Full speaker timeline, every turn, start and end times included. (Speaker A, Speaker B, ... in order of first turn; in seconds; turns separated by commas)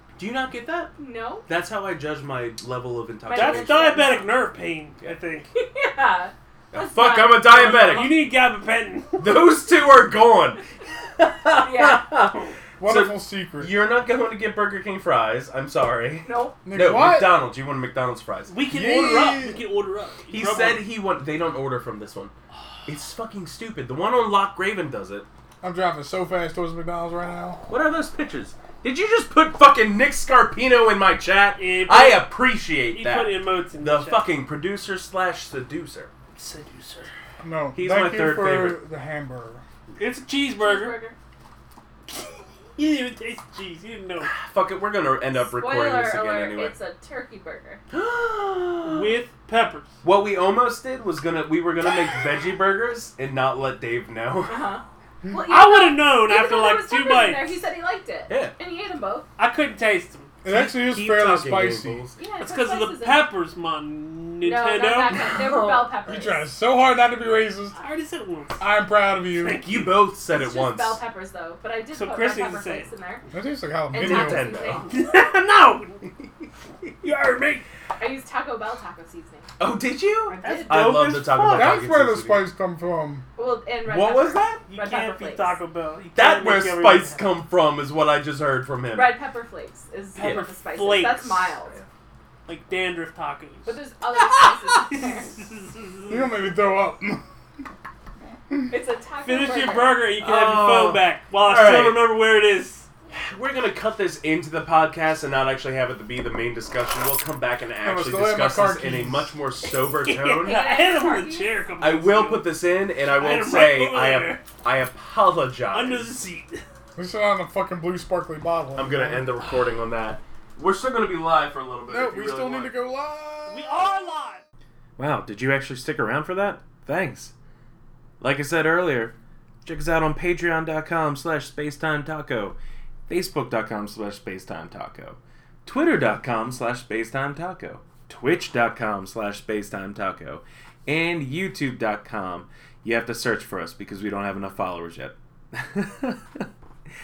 Speaker A: 0.2-0.9, Speaker B: 1.0-1.5, Speaker A: 1.4-4.1, Speaker B: 3.2-4.3, Speaker C: 3.3-5.5, Speaker B: 5.5-8.2, Speaker A: 6.7-8.2, Speaker C: 7.4-9.5, Speaker A: 9.2-10.6, Speaker A: 11.2-18.5, Speaker B: 11.5-12.1, Speaker D: 12.8-13.7, Speaker B: 16.2-16.6, Speaker D: 16.6-17.4, Speaker C: 18.5-20.8, Speaker D: 18.7-19.6, Speaker A: 20.3-22.3, Speaker A: 22.9-25.2, Speaker D: 25.6-27.6, Speaker A: 27.7-36.1, Speaker C: 31.5-32.3, Speaker C: 32.9-34.2, Speaker C: 36.4-37.1, Speaker D: 37.4-39.6, Speaker A: 37.7-38.8, Speaker C: 40.0-41.0, Speaker B: 40.6-41.2, Speaker C: 42.1-44.3, Speaker A: 44.2-46.7, Speaker B: 45.3-47.8, Speaker A: 47.9-49.1, Speaker C: 48.8-49.9, Speaker A: 50.0-54.7, Speaker B: 54.5-59.3, Speaker C: 55.5-57.6, Speaker A: 58.3-58.5, Speaker C: 59.4-60.3, Speaker D: 60.4-62.0, Speaker A: 60.5-62.2, Speaker B: 62.2-63.3, Speaker C: 62.4-65.4, Speaker B: 64.4-66.5, Speaker A: 65.1-65.7, Speaker D: 66.0-67.8, Speaker C: 67.8-68.6, Speaker D: 68.6-69.6, Speaker C: 69.3-70.0, Speaker A: 69.6-71.0, Speaker B: 70.3-73.2, Speaker C: 71.9-72.9, Speaker D: 73.3-74.6, Speaker B: 73.9-74.9, Speaker A: 73.9-74.9, Speaker C: 74.8-76.0, Speaker C: 77.0-77.7, Speaker B: 78.0-79.5, Speaker A: 79.6-82.5, Speaker B: 80.2-81.0, Speaker C: 80.4-81.8, Speaker D: 81.5-83.2, Speaker B: 83.3-85.6, Speaker A: 83.8-84.6, Speaker C: 84.6-87.3, Speaker A: 86.1-89.2, Speaker B: 88.9-91.8, Speaker A: 90.2-90.4, Speaker C: 90.2-91.5, Speaker C: 92.5-96.3, Speaker B: 93.7-95.3, Speaker D: 96.1-97.2, Speaker B: 98.7-100.0, Speaker C: 99.2-102.9, Speaker A: 100.2-102.1, Speaker A: 103.1-110.6, Speaker D: 107.8-109.3, Speaker C: 110.0-112.5, Speaker B: 110.4-111.5, Speaker A: 111.8-116.1, Speaker C: 113.1-114.4, Speaker C: 115.7-116.6, Speaker D: 117.0-119.3, Speaker A: 118.8-122.8, Speaker D: 121.9-123.9, Speaker C: 123.5-124.4, Speaker A: 125.0-127.3, Speaker A: 128.2-129.1, Speaker A: 129.6-132.6, Speaker A: 133.1-146.4